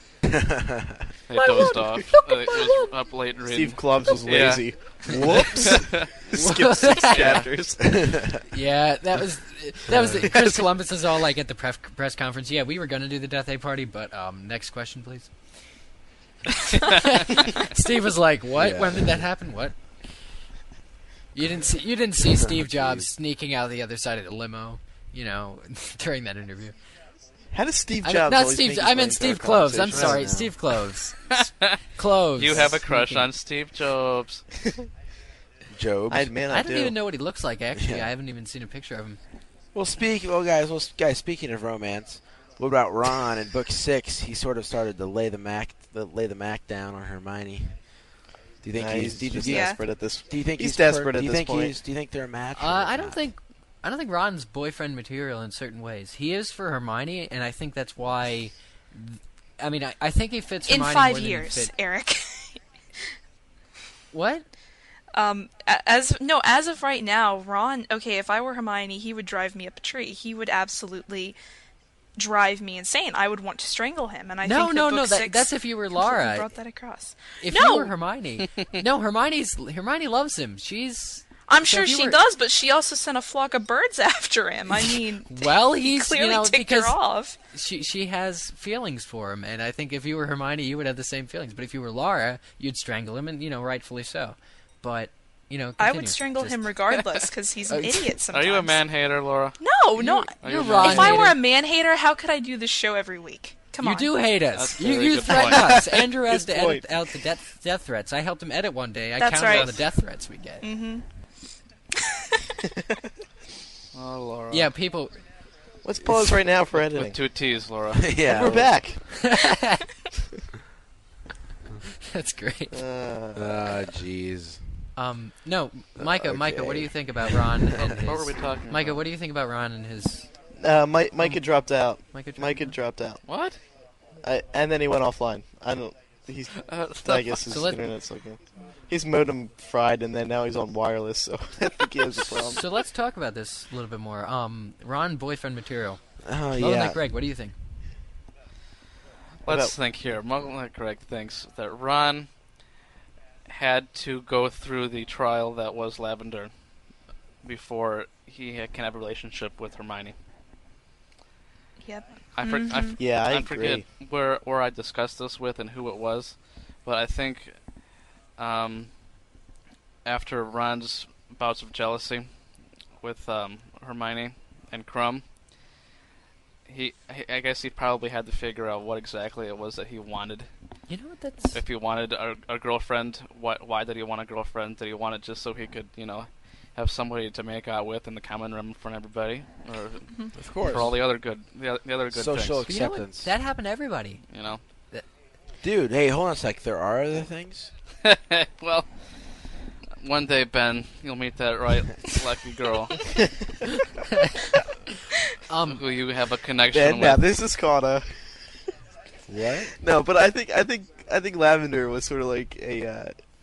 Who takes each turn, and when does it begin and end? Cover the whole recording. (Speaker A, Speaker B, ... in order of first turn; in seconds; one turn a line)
Speaker A: 0.2-1.1
Speaker B: 1.3-6.1
Speaker C: 1.4-2.9
Speaker D: 1.6-2.2
Speaker D: 3.5-8.1
Speaker C: 6.3-7.5
Speaker B: 7.1-7.4
Speaker A: 7.8-8.4
Speaker C: 8.5-15.3
Speaker A: 9.9-10.3
Speaker D: 10.2-10.6
Speaker C: 16.8-19.8
Speaker A: 18.5-19.2
Speaker C: 21.3-26.8
Speaker A: 22.4-23.1
Speaker D: 27.5-30.2
Speaker C: 28.0-31.4
Speaker A: 29.9-30.5
Speaker B: 31.3-31.8
Speaker C: 31.9-33.3
Speaker B: 32.4-34.4
Speaker A: 35.7-36.3
Speaker D: 36.1-36.9
Speaker C: 36.5-39.2
Speaker A: 37.8-38.1
Speaker A: 39.7-47.9
Speaker A: 48.6-53.2
Speaker D: 48.7-51.8
Speaker E: 49.4-49.8
Speaker C: 52.5-61.7
Speaker E: 60.6-62.6
Speaker C: 64.1-64.5
Speaker E: 65.1-71.4
Speaker E: 72.2-77.9
Speaker C: 74.4-76.5
Speaker C: 77.4-82.2
Speaker E: 81.4-87.4
Speaker C: 84.8-87.0
Speaker C: 87.5-96.8
Speaker E: 95.8-98.8
Speaker C: 97.7-98.2
Speaker B: 98.3-99.6
Speaker E: 99.6-104.3
Speaker B: 100.4-101.3
Speaker C: 100.4-101.4
Speaker C: 103.8-110.7
Speaker B: 104.5-105.9
Speaker D: 105.3-106.9
Speaker E: 109.2-109.8
Speaker B: 109.4-109.8
Speaker E: 110.6-111.0
Speaker B: 113.9-114.7
Speaker C: 114.5-115.2
Speaker D: 115.8-117.2
Speaker B: 116.7-118.1
Speaker A: 118.0-118.8
Speaker D: 118.2-119.0
Speaker C: 119.1-119.8
Speaker C: 122.0-122.8
Speaker D: 122.7-123.8
Speaker A: 123.3-124.9
Speaker C: 125.0-130.3
Speaker A: 126.0-127.9
Speaker B: 127.8-129.0
Speaker D: 130.6-133.2
Speaker C: 132.1-132.7
Speaker B: 133.2-133.6
Speaker D: 134.2-142.6
Speaker B: 136.6-137.4
Speaker C: 137.5-137.9
Speaker C: 142.2-147.6
Speaker A: 146.2-147.0
Speaker B: 149.4-152.3
Speaker D: 149.5-149.7
Speaker B: 153.5-156.5
Speaker B: 157.4-160.1
Speaker E: 161.8-163.0
Speaker B: 162.3-167.6
Speaker D: 163.0-163.8
Speaker B: 168.4-168.9
Speaker B: 170.0-172.3
Speaker B: 173.0-175.2
Speaker B: 176.7-180.5
Speaker C: 180.9-181.6
Speaker B: 181.5-192.6
Speaker A: 190.3-191.0
Speaker A: 192.1-193.3
Speaker C: 192.6-194.2
Speaker B: 194.3-194.6
Speaker A: 195.6-197.7
Speaker B: 198.0-199.3
Speaker B: 200.0-203.1
Speaker C: 205.5-205.8
Speaker B: 205.7-207.2
Speaker D: 206.7-208.2
Speaker A: 209.3-209.7
Speaker D: 209.7-213.1